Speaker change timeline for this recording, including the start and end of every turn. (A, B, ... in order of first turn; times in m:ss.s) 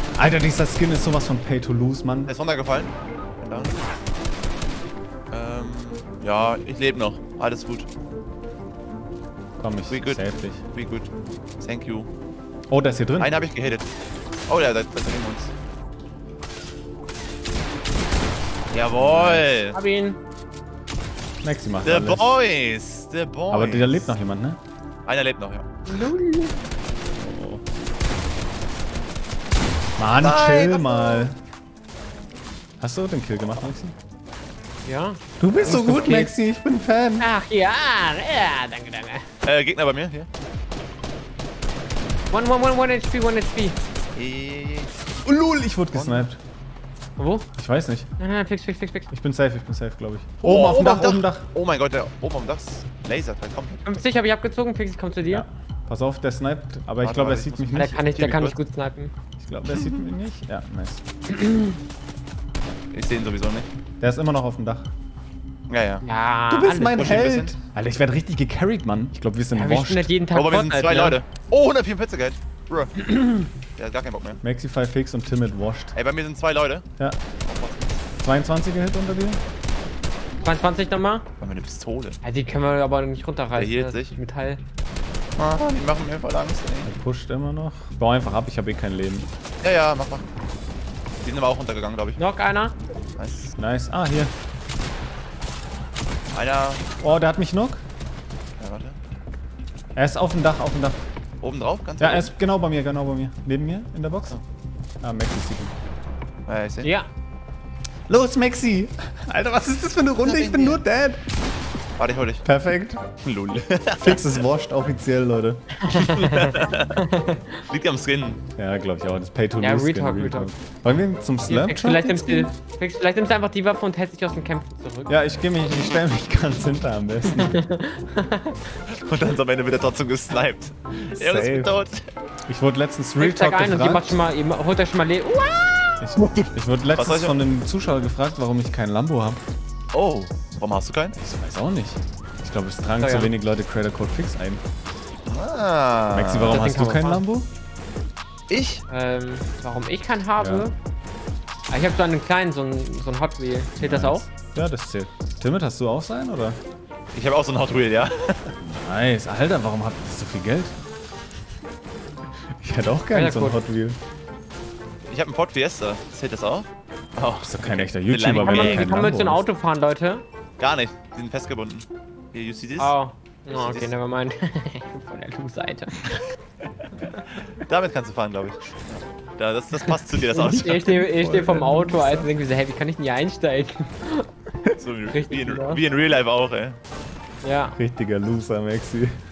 0:00.2-0:02.3 A
0:02.3-0:03.8 B
0:05.3-0:07.9 B
0:09.6-0:10.6 A
0:09.9-0:11.1 B
0:11.6-0:12.1 B
0:12.7-0:13.4 A
0:13.2-0:13.9 B
0:14.5-0:15.5 B
0:18.7-0:19.8 B
0:19.0-0:19.6 A
0:19.7-0:20.2 C
0:21.4-0:22.4 A
0:21.8-0:24.1 B
0:23.5-0:24.6 A
0:25.1-0:25.7 B
0:25.9-0:26.5 C
0:27.2-0:27.6 A
0:30.0-0:31.4 A
0:30.2-0:31.3 B
0:32.8-0:34.0 A
0:34.8-0:36.3 C
0:35.4-0:37.3 A
0:37.2-0:39.3 C
0:39.4-0:40.3 B
0:42.3-0:43.8 C
0:44.2-0:44.9 B
0:45.2-0:46.4 A
0:45.9-0:46.3 B
0:47.2-0:47.5 C
0:47.6-0:48.1 A
0:48.2-0:49.1 C
0:49.1-0:51.5 A
0:50.4-0:53.9 B
0:53.8-0:55.4 C
0:55.2-0:58.0 A
0:57.0-0:58.6 B
0:57.7-0:59.1 C
0:59.4-1:01.0 A
0:59.7-1:00.0 B
1:01.3-1:01.8 C
1:02.9-1:03.7 B
1:04.0-1:04.9 A
1:05.7-1:06.0 B
1:06.0-1:07.2 C
1:06.5-1:10.1 A
1:06.9-1:07.6 B
1:09.5-1:11.2 C
1:10.3-1:13.0 B
1:13.0-1:13.5 C
1:13.8-1:14.4 B
1:14.4-1:16.0 A
1:16.0-1:16.9 B
1:17.4-1:18.0 B
1:18.2-1:19.4 A
1:20.4-1:21.3 C
1:21.4-1:22.2 B
1:22.2-1:24.6 C
1:23.6-1:24.2 B
1:25.4-1:26.9 B
1:26.8-1:29.3 A
1:29.6-1:30.3 B
1:31.2-1:32.2 B
1:32.2-1:32.8 C
1:33.2-1:33.5 B
1:33.6-1:34.3 A
1:36.3-1:36.8 B
1:37.0-1:37.8 A
1:38.6-1:39.0 B
1:40.0-1:41.0 A
1:41.4-1:42.3 B
1:42.0-1:44.4 A
1:45.0-1:45.7 A
1:46.5-1:46.9 B
1:46.8-1:47.1 C
1:48.1-1:51.2 A
1:50.2-1:50.8 B
1:52.0-1:52.5 B
1:52.4-1:53.0 A
1:53.2-1:54.4 B
1:54.0-1:55.6 A
1:55.8-1:57.6 C
1:55.9-1:57.0 B
1:57.7-1:58.4 B
1:58.6-2:02.5 A
1:59.6-2:00.5 C
2:01.5-2:05.1 C
2:05.1-2:07.6 A
2:07.3-2:08.6 C
2:08.9-2:12.1 B
2:11.0-2:11.8 A
2:12.5-2:14.2 A
2:13.2-2:16.1 C
2:16.0-2:19.4 A
2:16.2-2:17.4 B
2:19.9-2:21.2 B
2:21.2-2:24.6 A
2:23.0-2:23.3 C
2:25.3-2:26.6 B
2:26.1-2:27.5 A
2:26.5-2:27.2 C
2:28.5-2:28.8 B
2:28.9-2:30.7 C
2:30.4-2:30.7 A
2:31.7-2:34.2 C
2:33.8-2:36.6 A
2:37.1-2:38.5 B
2:38.6-2:40.8 A
2:42.6-2:44.0 A
2:43.1-2:43.6 C
2:45.1-2:48.9 B
2:47.4-2:49.4 A
2:48.3-2:50.2 C
2:50.6-2:52.9 B
2:52.8-2:56.2 C
2:53.5-2:53.9 B
2:57.0-3:01.0 B
3:00.4-3:02.3 A
3:00.4-3:04.3 C
3:04.8-3:06.8 B
3:05.1-3:05.8 C
3:07.4-3:07.8 C
3:07.8-3:09.1 A